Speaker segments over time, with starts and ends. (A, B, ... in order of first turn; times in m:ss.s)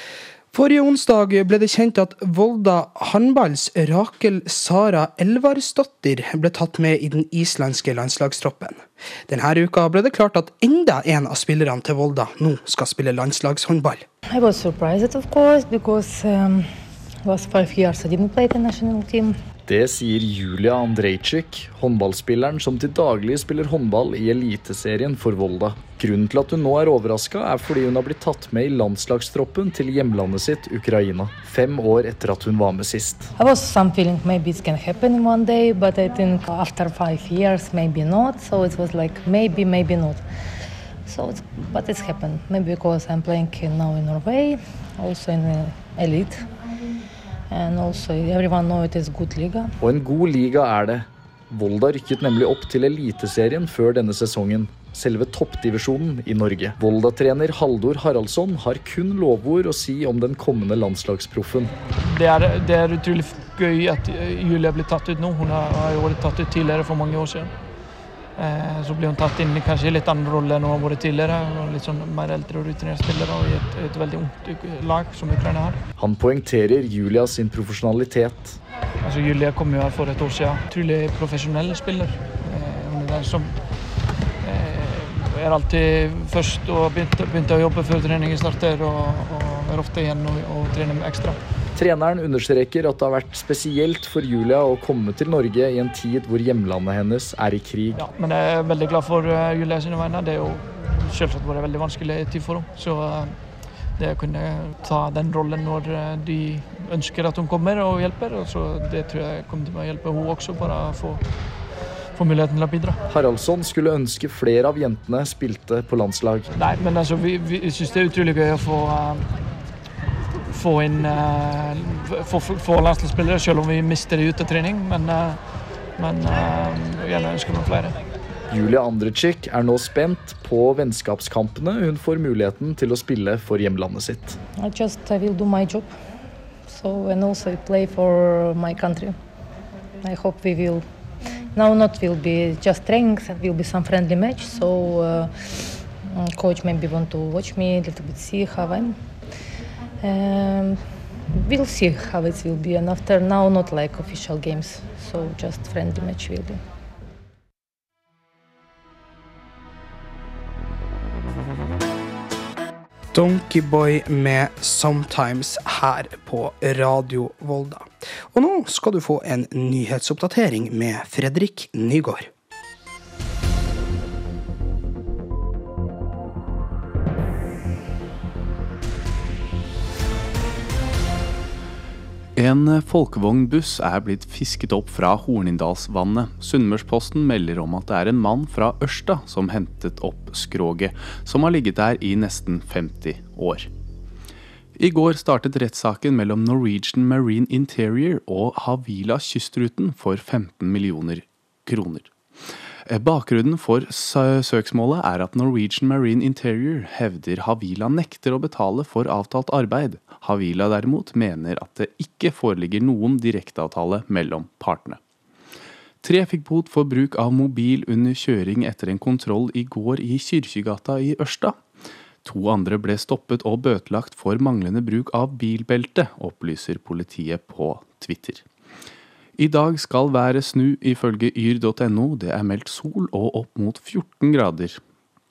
0:00.5-0:14.0 A
0:14.3-0:16.6 B
0:17.2-0:19.3 B
0:19.6-0:33.3 C
0:33.4-0:40.2 B
0:41.0-0:46.4 B
0:47.5-0:49.7 B
0:49.8-1:01.7 C
1:02.0-1:07.5 D
1:08.4-1:15.8 D
1:16.0-1:18.6 C
1:19.0-1:23.6 D
1:24.4-1:31.4 D
1:31.7-1:38.0 C
1:37.9-1:43.4 D
1:44.0-1:51.2 D
1:52.1-1:53.0 D
1:53.1-1:56.5 C
1:56.5-1:59.2 D
2:00.5-2:05.4 D
2:06.0-2:08.0 D
2:08.5-2:14.4 C
2:14.6-2:15.9 B
2:16.7-2:19.1 B
2:20.0-2:20.8 B
2:21.5-2:25.3 B
2:26.1-2:28.9 B
2:30.0-2:30.8 B
2:31.4-2:36.6 B
2:43.1-2:52.3 A
3:02.4-3:13.7 E
3:14.8-3:22.1 E
3:22.9-3:35.0 E
3:36.0-3:41.6 E
3:42.2-3:48.4 E
3:49.4-3:54.8 E